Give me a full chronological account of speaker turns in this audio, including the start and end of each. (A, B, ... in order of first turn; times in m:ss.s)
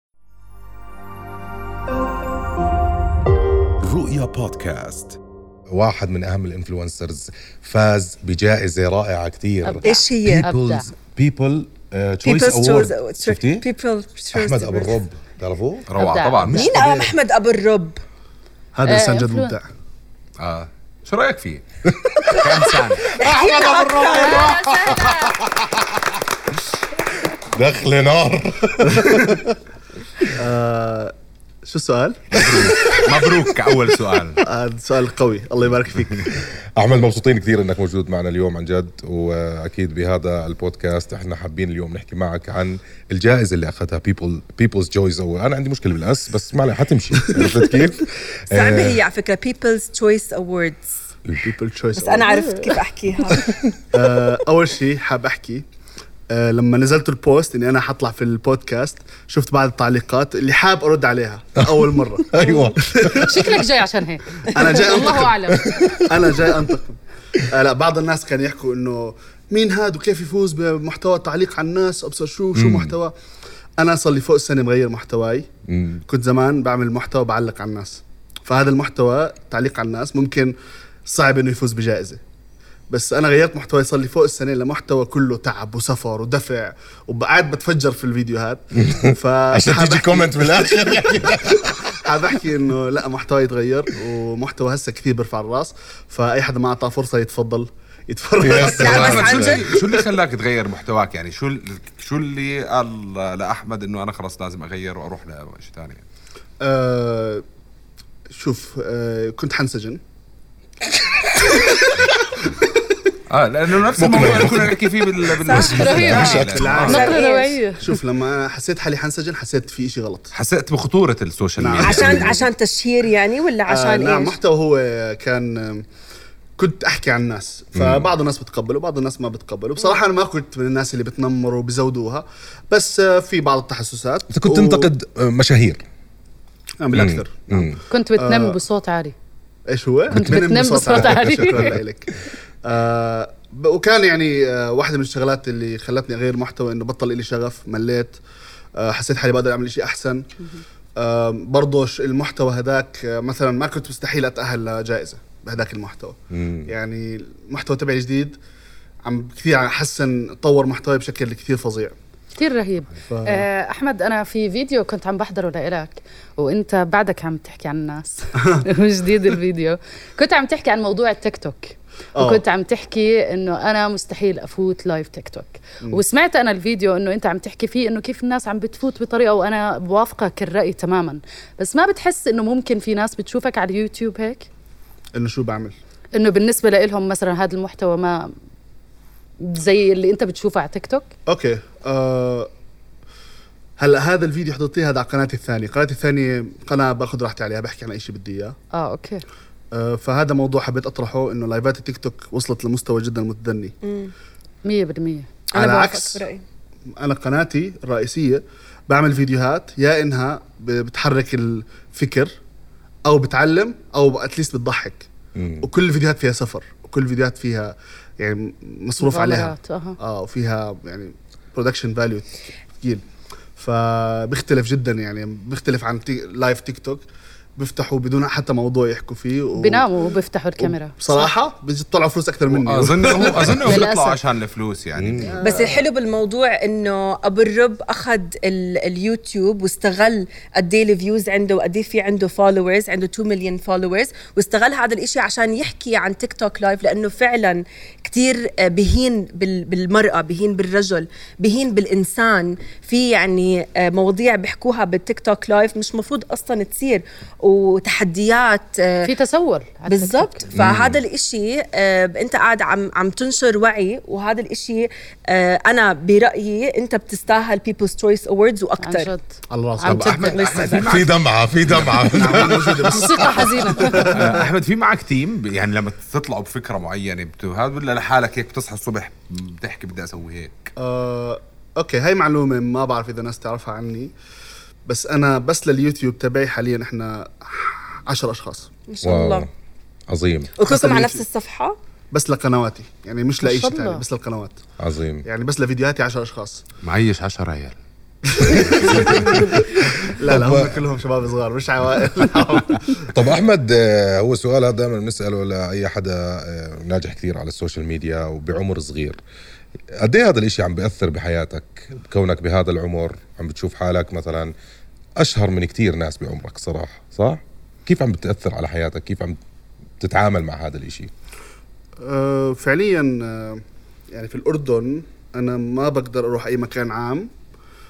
0:03.8-0:05.2 A
0:05.7-0:13.7 A
0:09.6-0:10.9 B
0:09.9-0:10.4 C
0:12.2-0:15.0 C
0:14.3-0:15.9 A
0:15.9-0:16.7 D
0:16.0-0:16.7 B
0:16.6-0:17.1 E
0:16.6-0:18.0 C
0:18.8-0:19.6 E
0:18.9-0:19.6 B
0:20.4-0:21.6 D
0:21.8-0:26.1 A
0:22.3-0:23.2 D
0:23.2-0:25.4 C
0:27.5-0:29.6 A
0:30.4-0:31.1 E
0:31.6-0:32.4 E
0:32.3-0:34.4 D
0:32.4-0:32.9 A
0:34.4-0:36.4 E
0:36.8-0:49.0 A
0:48.5-0:50.9 C
0:51.4-0:52.8 E
0:52.0-0:53.5 C
0:53.9-0:55.6 E
0:56.3-1:03.3 E
1:01.6-1:03.3 A
1:03.2-1:05.8 B
1:04.5-1:05.4 E
1:05.5-1:06.0 A
1:06.1-1:07.0 E
1:07.5-1:13.1 E
1:12.6-1:13.0 A
1:13.8-1:15.5 E
1:15.7-1:16.0 A
1:16.1-1:20.5 E
1:21.1-1:22.2 E
1:22.9-1:31.3 E
1:28.8-1:31.8 A
1:32.0-1:40.0 E
1:38.4-1:39.7 A
1:38.8-1:39.6 C
1:38.9-1:46.0 D
1:46.6-1:47.4 E
1:48.3-1:50.0 E
1:53.3-1:57.1 D
1:54.0-1:54.7 A
1:55.4-1:57.5 C
1:55.5-1:56.7 A
1:55.6-1:57.8 B
1:55.9-1:57.2 E
1:57.8-2:00.3 E
2:00.3-2:02.3 D
2:01.6-2:02.5 E
2:01.8-2:04.4 C
2:01.8-2:02.3 A
2:03.7-2:05.8 E
2:06.6-2:14.9 E
2:07.8-2:08.1 A
2:14.3-2:15.8 A
2:16.8-2:18.6 E
2:16.9-2:17.8 A
2:17.9-2:19.1 B
2:19.7-2:28.2 E
2:20.1-2:21.8 A
2:20.1-2:21.7 B
2:28.8-2:30.2 E
2:31.0-2:38.4 E
2:36.3-2:36.7 A
2:39.0-2:41.9 E
2:42.4-3:04.5 B
2:43.1-2:43.5 E
2:52.2-2:52.4 E
3:05.2-3:05.7 E
3:06.1-3:08.3 B
3:09.4-3:11.1 B
3:11.3-3:12.5 E
3:13.8-3:18.6 E
3:18.7-3:19.2 B
3:19.7-3:23.8 E
3:23.8-3:24.1 C
3:24.6-3:25.3 B
3:25.6-3:26.3 E
3:25.6-3:26.4 C
3:27.0-3:32.4 E
3:33.0-3:35.1 E
3:35.4-3:35.7 A
3:35.6-3:43.0 E
3:39.0-3:40.0 B
3:43.6-3:47.0 E
3:47.6-3:49.9 E
3:49.6-3:51.3 B
3:50.6-3:53.8 E
3:52.5-3:55.4 D
3:53.5-3:54.2 B
3:55.0-3:55.4 A
3:55.3-3:55.8 E
3:55.4-4:19.0 C
4:19.0-4:20.5 B
4:19.9-4:29.1 C
4:20.6-4:21.0 A
4:28.8-4:30.9 B
4:29.5-4:30.5 E
4:29.9-4:32.5 D
4:30.8-4:33.4 A
4:31.9-4:34.4 E
4:32.8-4:34.2 B
4:34.0-4:40.7 D
4:40.8-4:44.1 E
4:44.9-4:48.7 E
4:48.9-4:49.5 C
4:49.0-4:49.5 A
4:50.1-4:50.5 A
4:50.6-4:51.8 C
4:50.7-4:51.2 E
4:52.1-4:54.6 E
4:53.4-4:54.0 B
4:54.8-4:55.2 A
4:55.2-4:56.6 E
4:56.8-4:57.8 D
4:58.3-5:03.1 E
4:58.7-4:59.4 D
4:59.9-5:00.8 A
5:03.1-5:09.2 A
5:10.0-5:14.5 A
5:15.2-5:19.4 A
5:20.0-5:21.1 A
5:22.0-5:27.3 E